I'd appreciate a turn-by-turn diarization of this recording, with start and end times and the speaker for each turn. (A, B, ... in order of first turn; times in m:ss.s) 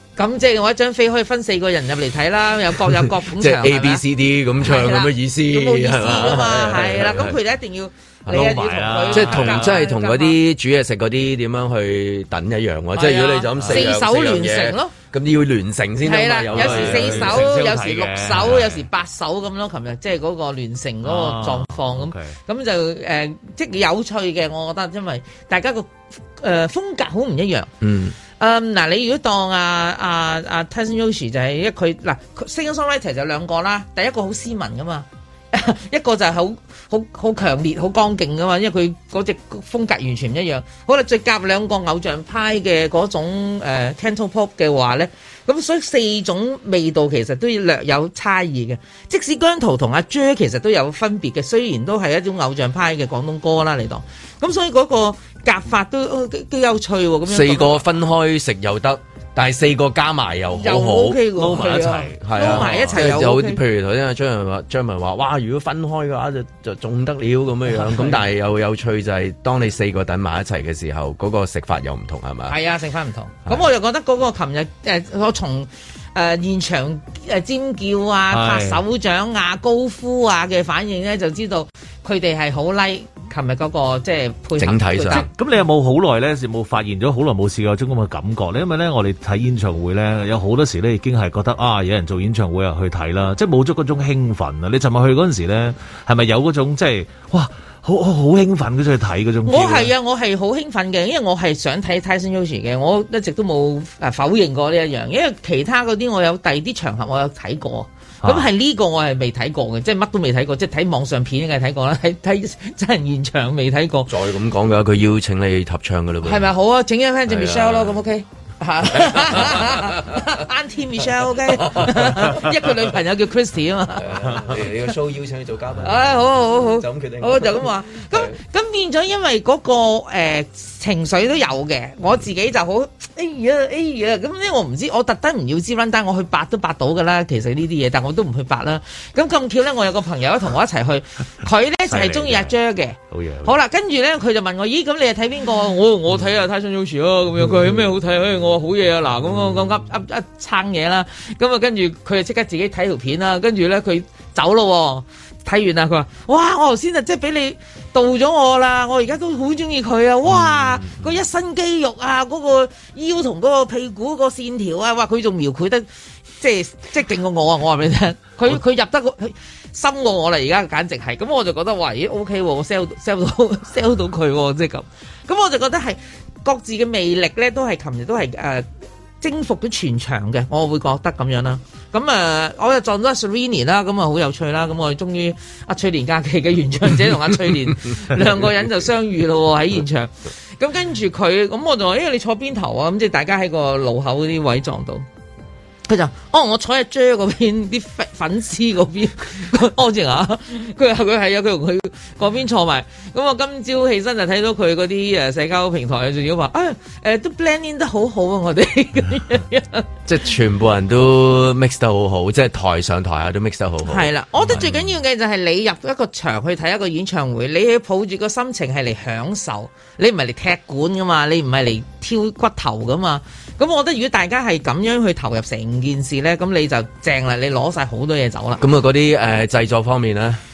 0:00.2-0:04.0 A
0:03.3-0:07.4 B
0:04.6-0:10.4 A
0:08.3-0:09.8 C
0:09.1-0:17.4 B
0:13.0-0:14.9 A
0:13.6-0:13.9 C
0:16.0-0:27.7 A
0:16.5-0:18.8 C
0:21.0-0:22.4 C
0:27.8-0:28.2 B
0:28.4-0:57.8 A
0:57.3-1:01.2 B
1:00.6-1:03.6 A
1:01.4-1:03.2 C
1:02.2-1:12.6 B
1:07.7-1:08.2 A
1:12.5-1:25.3 A
1:18.3-1:18.8 C
1:24.6-1:25.3 B
1:25.1-1:39.9 C
1:39.5-1:54.1 A
1:48.2-1:48.5 C
1:54.1-1:56.5 B
1:56.2-2:04.1 A
1:57.3-1:57.9 B
1:59.0-2:00.2 B
2:01.5-2:02.4 B
2:04.0-2:08.4 B
2:04.2-2:04.6 C
2:05.8-2:45.9 A
2:21.8-2:22.6 C
2:23.1-2:23.6 C
2:40.4-2:41.1 B
2:46.4-2:58.7 A
2:59.2-3:15.1 A
3:15.9-3:29.9 A
3:30.1-3:34.6 B
3:33.9-3:48.6 A
3:34.4-3:34.8 C
3:48.6-3:50.4 B